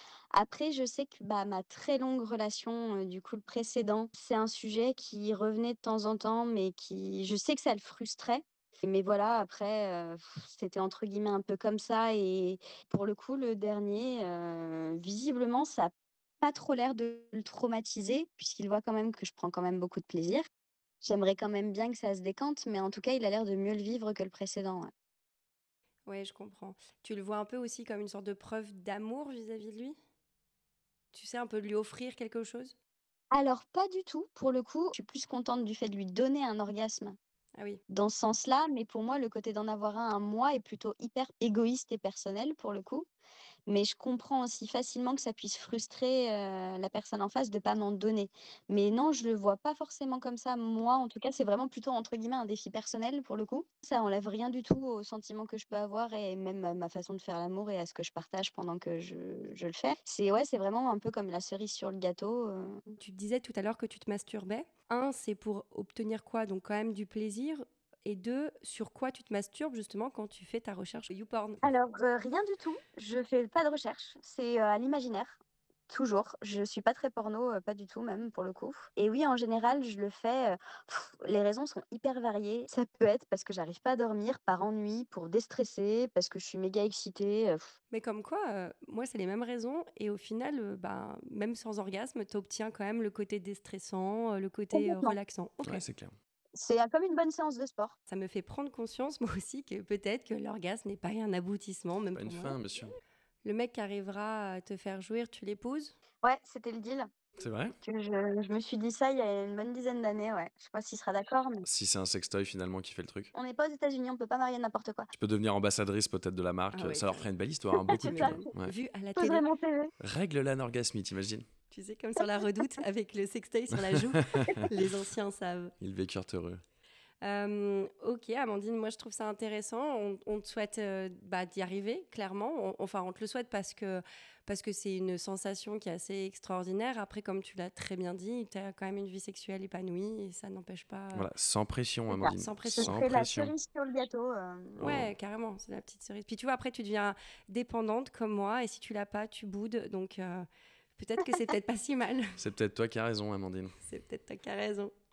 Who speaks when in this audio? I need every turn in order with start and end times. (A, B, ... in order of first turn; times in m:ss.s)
0:00.3-0:20.4 A
0:21.0-0:24.9 A
0:26.1-0:30.0 B
0:31.1-0:32.8 B
0:33.3-0:37.2 A
0:37.9-0:43.1 A
0:43.7-1:02.8 A
1:03.0-1:11.6 B
1:11.6-1:15.4 A
1:15.9-1:27.8 A
1:27.9-1:35.8 B
1:34.7-1:35.1 A
1:35.6-1:36.1 C
1:36.6-1:38.0 A
1:38.1-1:42.6 B
1:42.1-1:43.0 C
1:43.4-1:46.0 B
1:46.2-1:47.1 A
1:47.4-1:47.8 C
1:47.8-1:51.6 A
1:51.6-1:53.3 C
1:53.4-1:55.1 A
1:55.1-1:58.7 C
1:56.7-1:57.2 B
1:57.8-1:58.3 A
1:57.9-1:59.4 B
1:59.2-1:59.9 A
2:00.0-2:01.5 C
2:01.7-2:05.7 B
2:03.7-2:04.7 C
2:05.8-2:06.6 C
2:07.2-2:21.3 B
2:21.1-2:23.5 C
2:22.1-2:23.0 B
2:22.8-2:25.0 A
2:24.8-2:25.1 C
2:24.8-2:32.4 B
2:32.4-2:33.8 C
2:33.8-2:34.9 B